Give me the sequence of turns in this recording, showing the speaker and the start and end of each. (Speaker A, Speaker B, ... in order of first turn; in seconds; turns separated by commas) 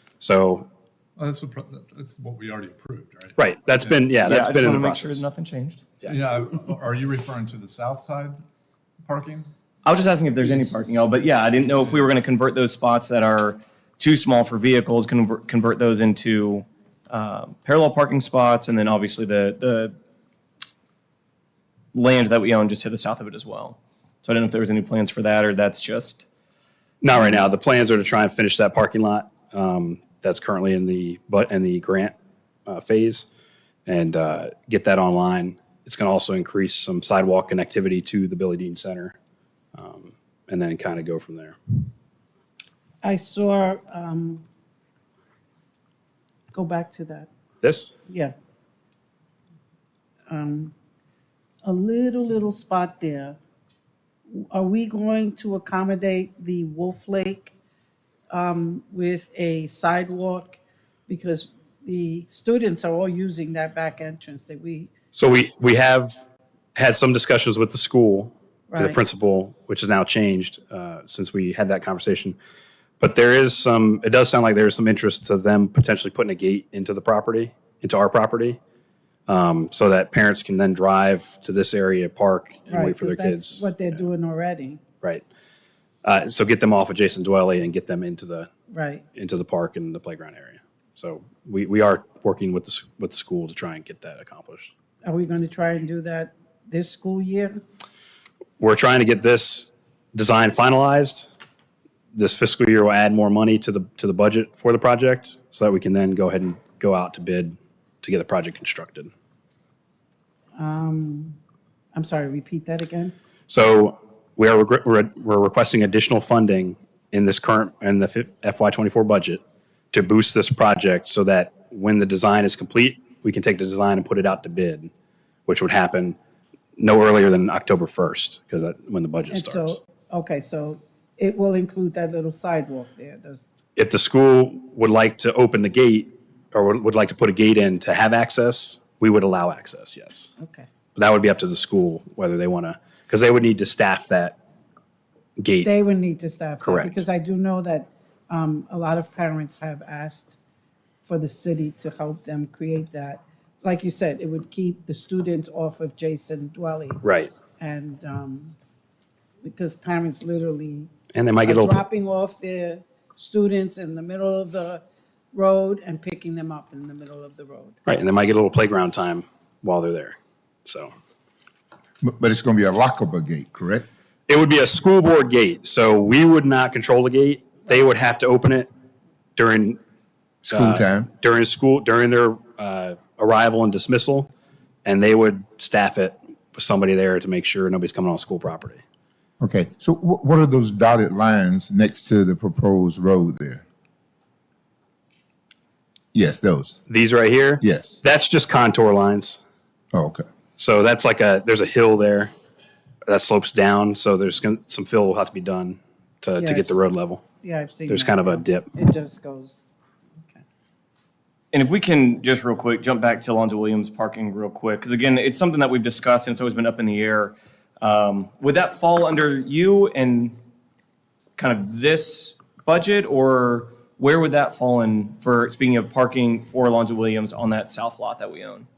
Speaker A: 0.2-0.7, Speaker B: 1.1-4.9, Speaker A: 3.4-5.2, Speaker C: 4.2-5.8, Speaker B: 6.0-8.4, Speaker B: 9.0-9.5, Speaker C: 9.8-19.9, Speaker B: 10.4-10.7, Speaker C: 21.9-26.3, Speaker A: 27.0-32.1, Speaker A: 32.7-33.3, Speaker A: 33.9-39.1, Speaker A: 39.7-41.6, Speaker D: 43.0-44.4, Speaker D: 46.5-47.3, Speaker A: 47.6-47.9, Speaker D: 48.1-48.3, Speaker D: 50.3-50.7, Speaker D: 51.6-53.4, Speaker D: 54.3-57.5, Speaker D: 58.3-64.9, Speaker A: 65.1-66.1, Speaker A: 66.7-72.3, Speaker D: 68.7-69.0, Speaker A: 73.0-78.6, Speaker A: 79.3-83.7, Speaker D: 82.7-84.8, Speaker A: 86.0-88.5, Speaker D: 88.7-89.0, Speaker A: 89.1-94.7, Speaker D: 95.0-97.6, Speaker A: 98.6-101.3, Speaker A: 102.1-109.1, Speaker D: 110.5-111.4, Speaker D: 111.9-113.1, Speaker A: 113.5-119.4, Speaker A: 119.9-124.9, Speaker A: 125.5-126.2, Speaker A: 126.8-129.8, Speaker D: 129.3-133.5, Speaker A: 133.8-140.3, Speaker D: 140.4-140.7, Speaker A: 140.9-144.4, Speaker A: 145.4-145.7, Speaker D: 145.6-150.4, Speaker A: 146.6-147.0, Speaker D: 151.1-157.0, Speaker A: 157.0-157.3, Speaker D: 157.6-158.5, Speaker D: 159.4-160.9, Speaker A: 161.1-161.8, Speaker D: 161.4-164.8, Speaker D: 165.3-167.8, Speaker A: 167.8-170.9, Speaker E: 172.0-173.8, Speaker A: 174.3-178.7, Speaker A: 179.3-179.8, Speaker E: 180.4-181.1, Speaker A: 180.5-184.3, Speaker A: 184.8-188.8, Speaker E: 189.4-193.6, Speaker E: 196.1-196.8, Speaker A: 196.9-199.4, Speaker E: 197.6-198.0, Speaker E: 199.9-200.2, Speaker A: 200.6-202.3, Speaker A: 203.1-207.2, Speaker D: 206.4-206.8, Speaker D: 207.4-209.6, Speaker A: 207.9-208.7, Speaker C: 211.5-220.4, Speaker C: 221.4-228.7